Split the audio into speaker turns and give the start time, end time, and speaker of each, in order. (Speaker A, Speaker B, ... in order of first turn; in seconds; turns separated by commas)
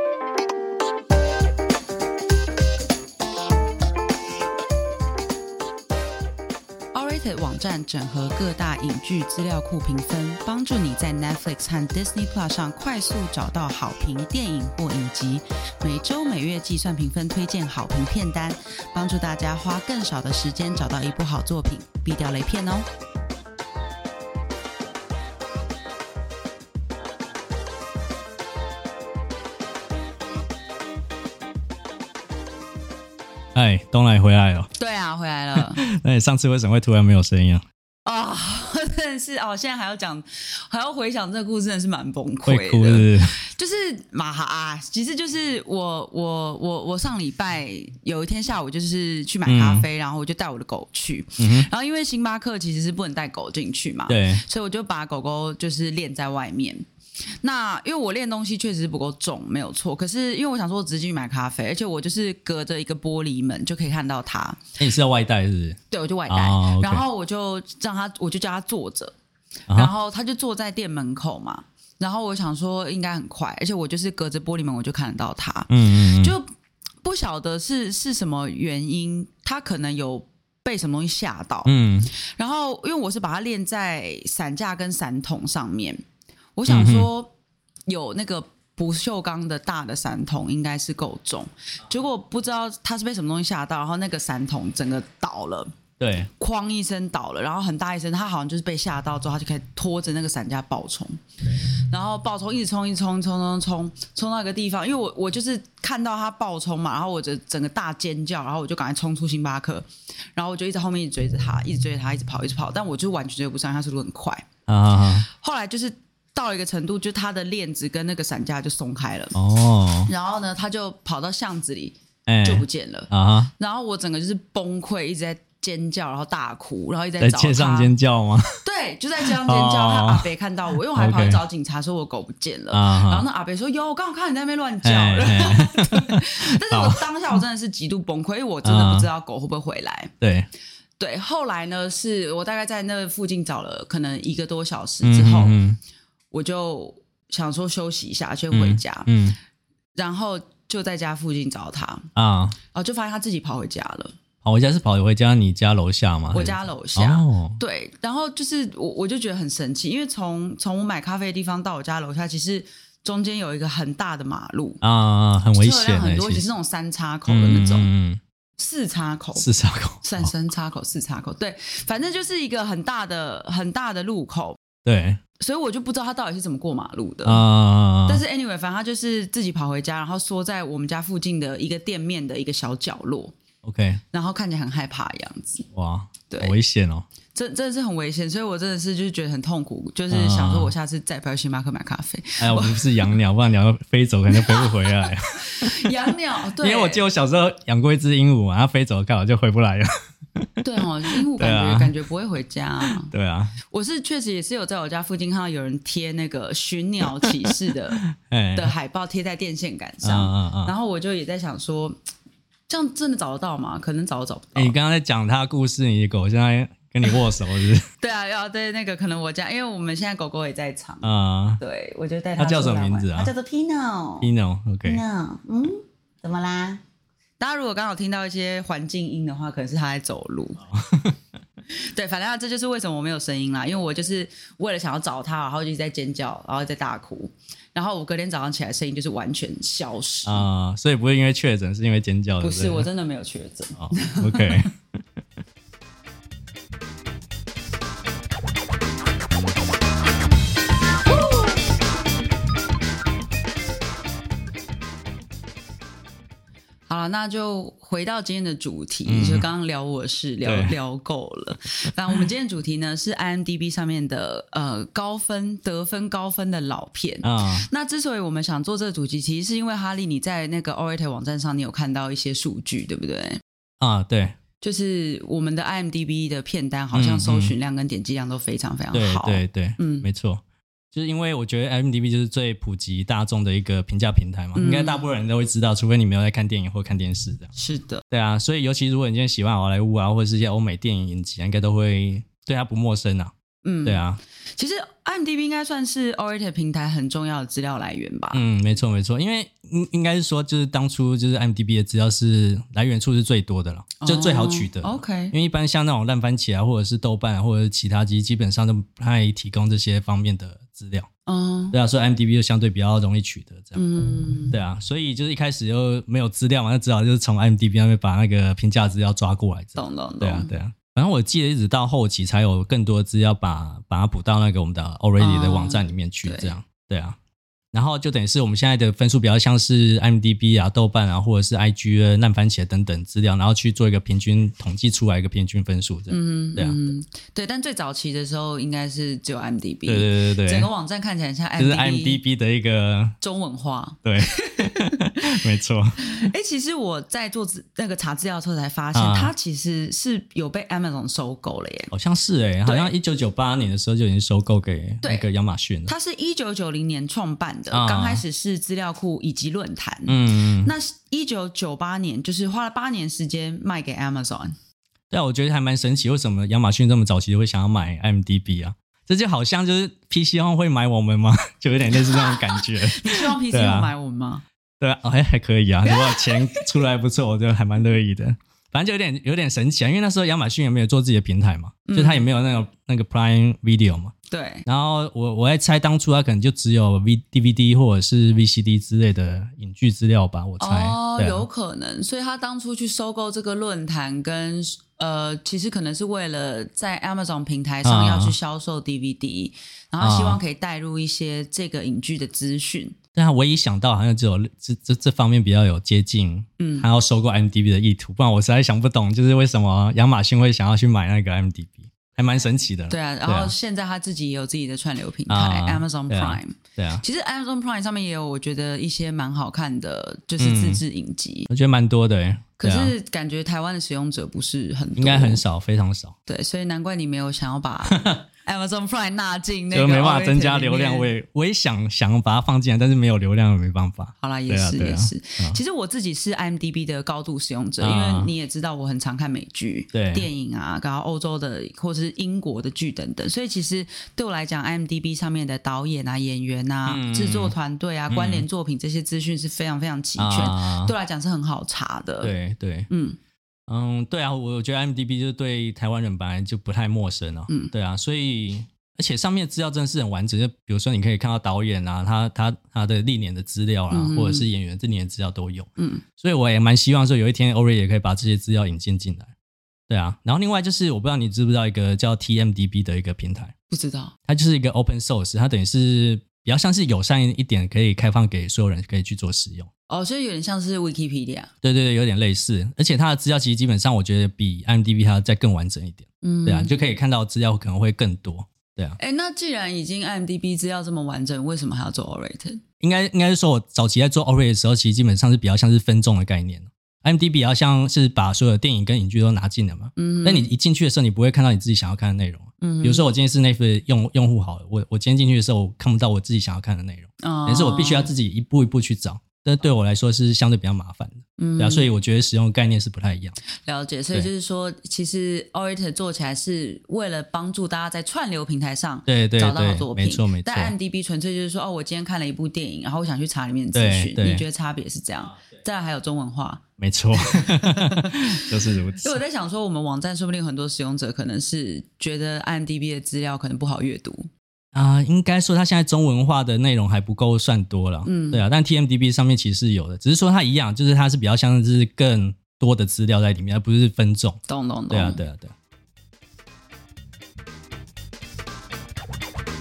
Speaker A: 6.9-22.9, Speaker B: 33.5-34.7, Speaker A: 34.8-35.8, Speaker B: 35.5-37.6, Speaker A: 38.0-56.9, Speaker B: 42.5-43.4, Speaker B: 49.5-49.9, Speaker B: 51.4-51.7, Speaker B: 54.1-54.4, Speaker A: 57.4-64.6, Speaker B: 64.8-65.8, Speaker A: 65.9-69.1, Speaker B: 66.3-67.0, Speaker A: 69.7-76.5, Speaker B: 75.7-76.3, Speaker A: 77.0-86.0, Speaker B: 81.7-82.1, Speaker A: 86.6-87.3, Speaker B: 86.7-87.1, Speaker A: 87.9-95.7, Speaker B: 96.0-96.3, Speaker A: 96.4-101.2, Speaker A: 101.9-114.5, Speaker B: 114.7-115.2, Speaker A: 115.2-119.3, Speaker B: 119.3-120.1, Speaker A: 120.1-127.9, Speaker B: 122.3-123.5, Speaker B: 127.2-128.6, Speaker A: 128.6-140.1, Speaker B: 129.2-130.3, Speaker B: 130.9-131.4, Speaker B: 132.7-133.2, Speaker B: 134.8-137.0, Speaker B: 138.6-139.1, Speaker B: 140.2-140.5, Speaker A: 141.0-145.6, Speaker B: 145.0-145.8, Speaker A: 146.3-149.1, Speaker B: 148.5-149.4, Speaker A: 149.9-152.1, Speaker B: 152.1-152.6, Speaker A: 152.7-154.2, Speaker B: 154.4-157.6, Speaker A: 156.3-164.8, Speaker B: 164.8-166.5, Speaker A: 165.6-167.9, Speaker B: 167.3-168.2, Speaker A: 168.6-169.5, Speaker B: 169.3-170.3, Speaker A: 170.0-174.6, Speaker B: 174.8-175.2, Speaker A: 175.4-177.4, Speaker B: 177.2-178.2, Speaker A: 178.1-183.3, Speaker B: 183.6-184.0, Speaker A: 184.1-185.7, Speaker B: 185.7-187.1, Speaker A: 186.3-186.5, Speaker A: 187.3-193.1, Speaker B: 190.1-190.7, Speaker B: 192.4-201.9, Speaker A: 194.3-197.0, Speaker A: 200.6-203.1, Speaker B: 202.8-203.6, Speaker A: 203.6-208.0, Speaker B: 208.0-208.7, Speaker A: 208.5-212.0, Speaker B: 210.0-210.7, Speaker A: 212.7-214.8, Speaker B: 214.6-217.8, Speaker A: 218.0-221.1, Speaker B: 221.0-221.6, Speaker A: 221.6-224.3, Speaker B: 222.4-223.3, Speaker B: 224.2-225.0, Speaker A: 224.8-226.8, Speaker A: 227.4-230.6, Speaker B: 230.6-231.2, Speaker A: 231.7-240.5, Speaker B: 240.2-242.9, Speaker A: 242.4-244.7, Speaker B: 243.8-244.7, Speaker A: 256.9-273.4, Speaker B: 259.1-259.5, Speaker B: 260.4-260.8, Speaker B: 267.2-267.7, Speaker B: 273.8-274.4, Speaker A: 274.6-280.1, Speaker B: 276.9-277.6, Speaker B: 278.9-280.4, Speaker B: 280.9-287.5, Speaker A: 284.6-285.1, Speaker A: 287.6-288.0, Speaker B: 288.1-293.3, Speaker A: 293.6-294.0, Speaker B: 293.9-294.2, Speaker A: 294.6-298.4, Speaker B: 298.3-311.1, Speaker A: 304.0-305.3, Speaker A: 311.2-311.8, Speaker B: 311.7-313.8, Speaker A: 313.8-314.6, Speaker B: 314.5-327.2, Speaker A: 319.8-320.5, Speaker A: 325.2-326.5, Speaker B: 327.7-336.8, Speaker A: 336.1-342.2, Speaker B: 339.9-340.7, Speaker B: 341.6-343.2, Speaker A: 343.2-345.4, Speaker B: 344.1-346.1, Speaker A: 346.0-351.9, Speaker B: 348.9-349.3, Speaker B: 351.9-355.9, Speaker A: 352.6-352.9, Speaker A: 355.0-355.3, Speaker A: 355.9-364.6, Speaker B: 357.7-358.2, Speaker B: 360.1-360.7, Speaker B: 365.1-373.9, Speaker A: 371.9-374.4, Speaker B: 374.8-384.1, Speaker A: 375.9-376.7, Speaker A: 381.9-382.3, Speaker A: 384.3-384.6, Speaker B: 384.7-391.5, Speaker A: 390.6-403.0, Speaker B: 397.8-398.4, Speaker B: 400.0-400.4, Speaker B: 403.2-413.5, Speaker A: 406.6-406.9, Speaker A: 412.9-421.5, Speaker B: 415.3-417.0, Speaker B: 420.4-420.8, Speaker B: 421.5-422.9, Speaker A: 422.6-425.4, Speaker B: 425.0-426.1, Speaker A: 426.3-431.1, Speaker B: 427.9-428.2, Speaker B: 429.7-435.6, Speaker A: 434.2-452.3, Speaker B: 437.8-438.3, Speaker B: 439.9-440.3, Speaker B: 446.9-447.6, Speaker B: 448.1-448.5, Speaker B: 450.2-450.9, Speaker B: 452.2-452.9, Speaker A: 452.9-453.2, Speaker B: 453.7-469.3, Speaker A: 463.9-464.5, Speaker A: 465.8-466.1, Speaker B: 469.9-473.5, Speaker A: 473.7-474.1, Speaker B: 474.3-479.7, Speaker A: 479.9-481.5, Speaker B: 481.6-489.0, Speaker A: 486.2-486.7, Speaker A: 489.0-492.6, Speaker B: 492.8-513.4, Speaker A: 499.9-500.5, Speaker A: 502.6-503.1, Speaker A: 507.2-508.1, Speaker A: 511.4-511.9, Speaker A: 513.6-526.6, Speaker B: 519.1-520.7, Speaker B: 523.8-524.4, Speaker B: 526.8-529.2, Speaker A: 527.2-534.3, Speaker B: 534.7-544.4, Speaker A: 538.0-538.4, Speaker A: 544.5-545.2, Speaker B: 544.9-545.5